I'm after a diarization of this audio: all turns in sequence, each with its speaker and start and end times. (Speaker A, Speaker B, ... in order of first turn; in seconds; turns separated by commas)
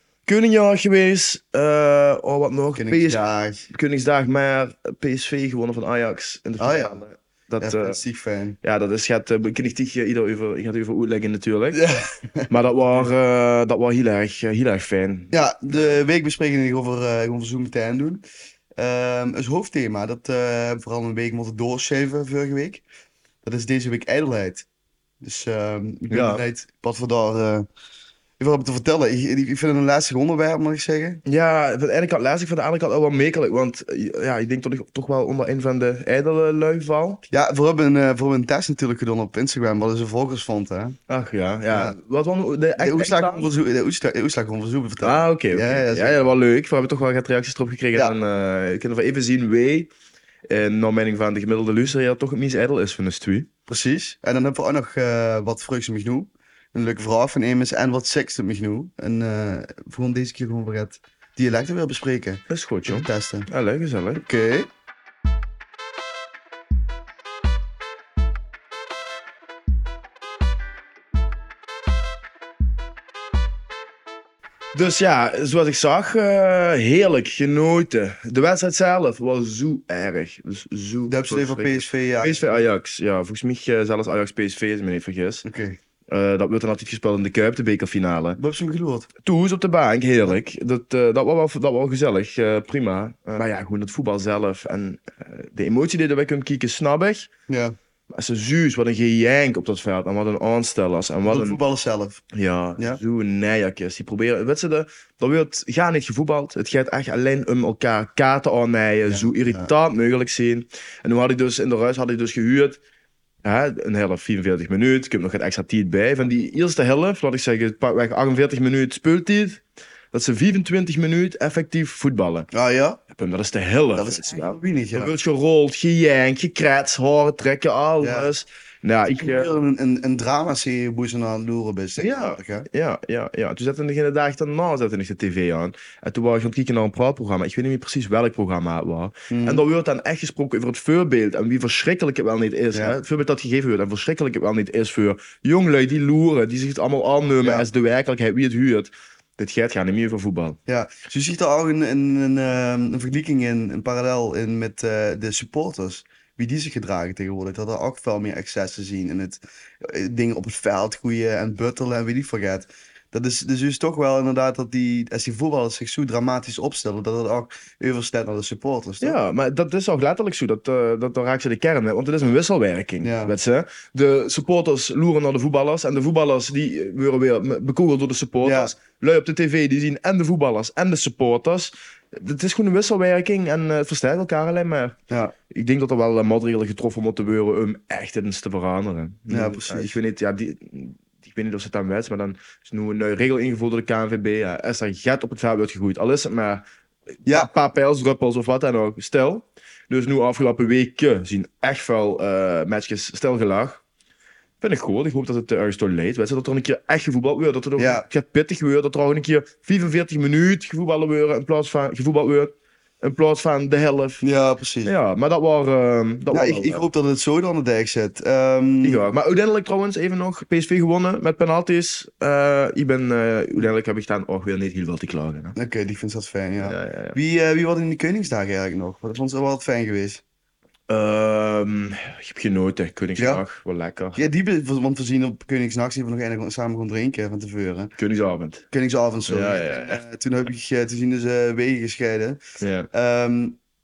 Speaker A: 0.2-8.0, Speaker B: 2.8-3.6, Speaker B: 6.6-7.0, Speaker B: 7.6-8.6, Speaker A: 8.6-11.8, Speaker B: 11.7-12.5, Speaker A: 12.5-15.9, Speaker B: 15.3-18.2, Speaker B: 18.8-22.8, Speaker B: 23.4-24.6, Speaker B: 25.2-27.7, Speaker A: 26.1-26.4, Speaker B: 28.4-31.2, Speaker A: 31.2-37.2, Speaker B: 37.3-41.0, Speaker A: 41.1-43.5, Speaker B: 41.7-42.0, Speaker B: 42.8-46.2, Speaker A: 45.0-49.9, Speaker A: 50.5-53.5, Speaker B: 53.7-63.5, Speaker A: 62.5-64.2, Speaker B: 64.2-64.7, Speaker A: 74.7-85.5, Speaker B: 81.1-82.4, Speaker B: 85.4-85.8, Speaker A: 86.1-88.4, Speaker B: 88.4-89.1, Speaker A: 89.2-97.3, Speaker B: 97.5-97.7, Speaker A: 98.1-101.6, Speaker B: 101.2-102.2, Speaker A: 102.3-112.8, Speaker B: 109.1-109.7, Speaker A: 113.4-122.5, Speaker B: 122.5-123.0, Speaker A: 123.1-129.5, Speaker B: 124.0-125.1, Speaker B: 128.0-128.3, Speaker B: 129.1-132.7, Speaker A: 132.0-150.6, Speaker B: 139.3-139.6, Speaker B: 147.4-147.7, Speaker B: 150.7-169.2, Speaker A: 169.0-185.0, Speaker B: 173.0-173.3, Speaker B: 178.4-178.7, Speaker A: 185.5-196.6, Speaker B: 189.3-189.9, Speaker A: 197.2-203.8, Speaker A: 204.6-214.2, Speaker B: 207.8-208.0, Speaker B: 214.2-214.9, Speaker A: 214.8-216.8, Speaker B: 216.3-219.0, Speaker A: 218.8-225.6, Speaker B: 225.6-230.2, Speaker A: 226.6-227.2, Speaker A: 230.9-234.2, Speaker B: 233.2-233.4, Speaker B: 234.2-237.9, Speaker A: 238.0-238.6, Speaker B: 238.7-242.4, Speaker A: 239.3-240.0, Speaker A: 242.6-242.9, Speaker B: 242.9-243.6